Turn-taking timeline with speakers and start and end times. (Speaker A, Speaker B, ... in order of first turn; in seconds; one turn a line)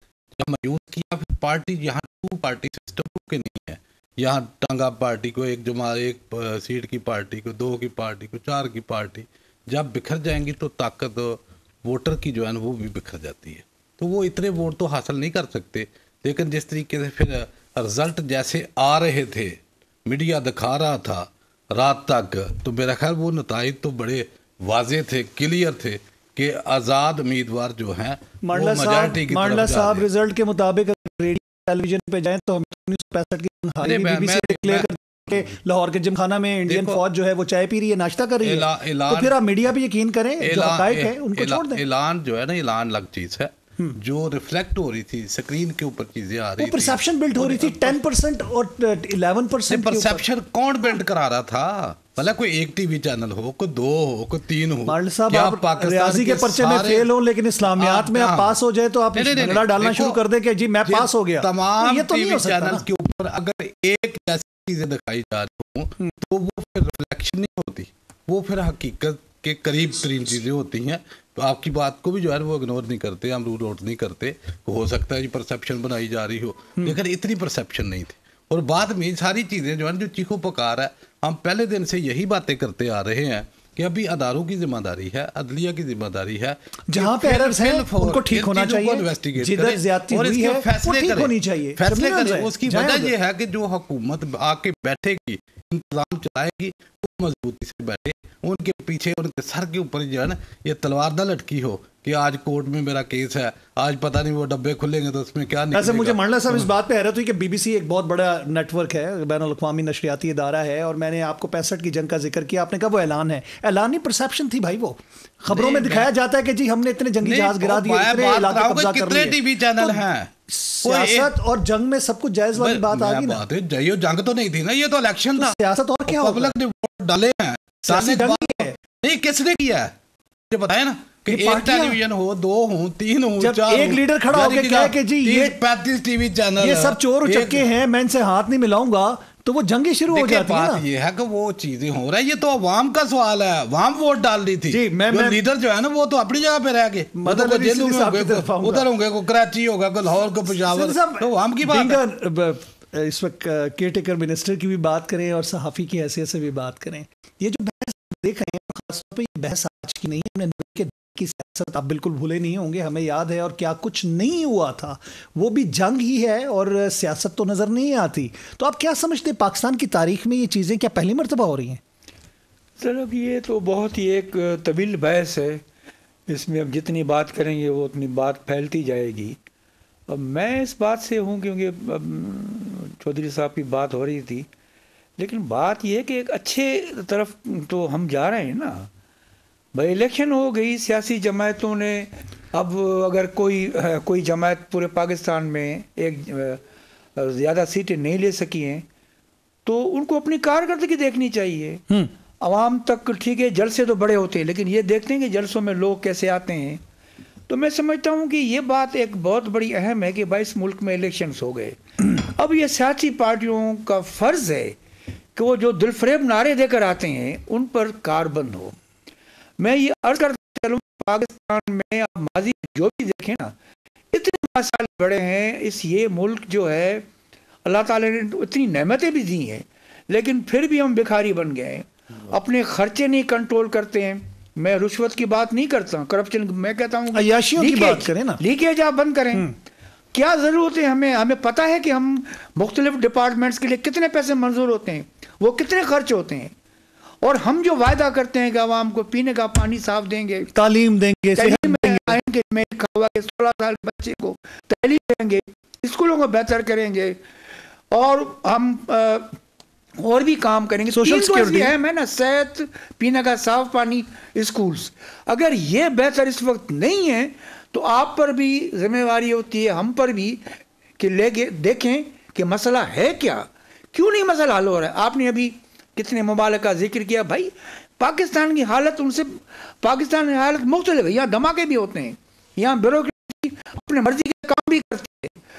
Speaker A: 0.4-30.1
Speaker B: 28.4-41.8
Speaker A: 33.8-34.9
Speaker A: 36.7-37.0
Speaker A: 38.4-39.4
Speaker A: 40.4-48.0
Speaker B: 46.6-50.2
Speaker A: 49.7-57.1
Speaker B: 54.9-62.8
Speaker A: 57.7-58.5
Speaker A: 59.1-60.2
Speaker A: 60.8-106.7
Speaker B: 86.9-93.1
Speaker B: 105.7-123.4
Speaker A: 115.5-116.1
Speaker A: 117.2-120.3
Speaker A: 120.8-121.3
Speaker A: 122.5-129.9
Speaker B: 125.3-126.5
Speaker B: 127.9-128.8
Speaker A: 130.5-137.7
Speaker B: 131.3-132.0
Speaker B: 133.4-135.6
Speaker B: 136.6-140.8
Speaker A: 140.1-152.0
Speaker B: 144.7-145.4
Speaker B: 147.2-148.9
Speaker B: 150.7-171.8
Speaker C: 172.8-175.6
Speaker C: 176.3-179.4
Speaker C: 180.1-184.5
Speaker C: 185.2-188.9
Speaker C: 189.7-196.6
Speaker C: 197.2-198.8
Speaker C: 199.7-201.8
Speaker C: 202.4-206.8
Speaker C: 207.5-214.8
Speaker C: 215.3-218.8
Speaker C: 219.6-223.5
Speaker C: 224.1-227.1
Speaker C: 227.6-239.5
Speaker B: 237.1-238.4
Speaker C: 240.1-246.5
Speaker C: 247.2-250.5
Speaker B: 250.5-252.2
Speaker C: 251.3-257.2
Speaker C: 257.9-259.4
Speaker C: 260.0-285.4
Speaker B: 260.9-261.7